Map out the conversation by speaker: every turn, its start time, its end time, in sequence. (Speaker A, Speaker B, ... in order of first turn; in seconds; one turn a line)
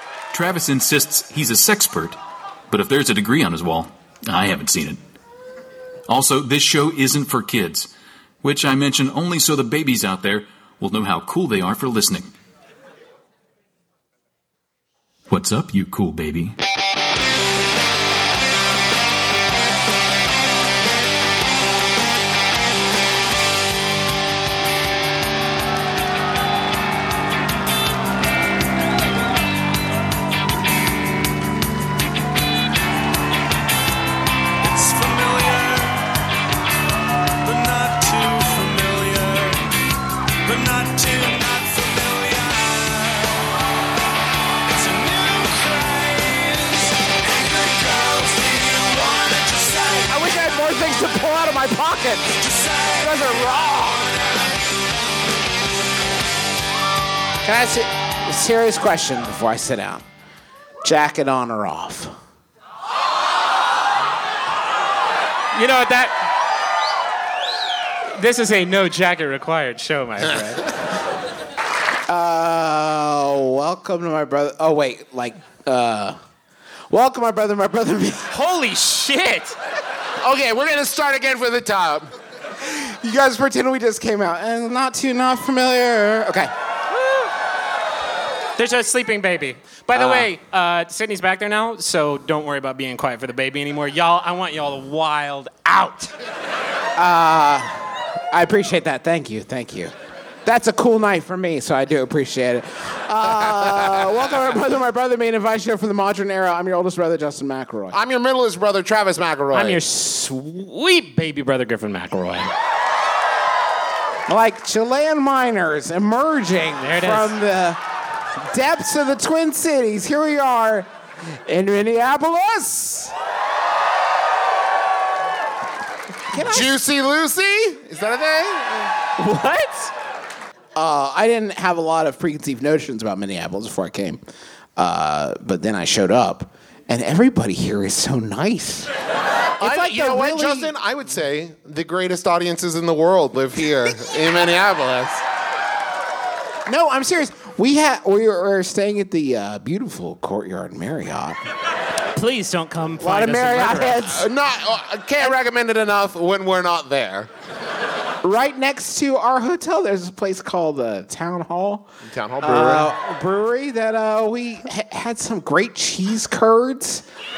Speaker A: 0.3-2.2
Speaker A: 2.7-5.0
Speaker A: 6.1-7.9
Speaker A: 8.4-12.3
Speaker A: 15.3-16.6
Speaker B: 34.6-36.1
Speaker B: 37.4-39.7
Speaker B: 40.4-43.5
Speaker B: 44.7-50.1
Speaker C: 50.1-52.4
Speaker B: 52.4-55.1
Speaker C: 53.0-54.1
Speaker C: 57.4-60.0
Speaker C: 60.8-62.1
Speaker D: 65.5-66.2
Speaker D: 68.2-70.7
Speaker C: 72.1-76.2
Speaker C: 76.9-78.3
Speaker D: 78.3-79.5
Speaker E: 80.2-82.1
Speaker C: 82.6-86.5
Speaker D: 87.0-87.3
Speaker D: 88.6-96.1
Speaker C: 89.9-90.3
Speaker C: 97.0-99.9
Speaker C: 100.4-107.9
Speaker E: 107.9-109.8
Speaker D: 109.5-112.5
Speaker C: 114.3-117.8
Speaker D: 116.8-117.3
Speaker C: 118.4-120.9
Speaker C: 121.5-123.1
Speaker C: 126.3-126.7
Speaker E: 126.3-128.9
Speaker D: 129.2-129.9
Speaker C: 130.8-134.2
Speaker C: 134.8-138.9
Speaker C: 139.6-140.7
Speaker E: 139.6-145.2
Speaker C: 146.7-151.4
Speaker D: 152.1-154.0
Speaker C: 153.0-154.3
Speaker E: 154.1-157.3
Speaker C: 158.2-161.9
Speaker E: 162.1-162.9
Speaker C: 162.4-167.0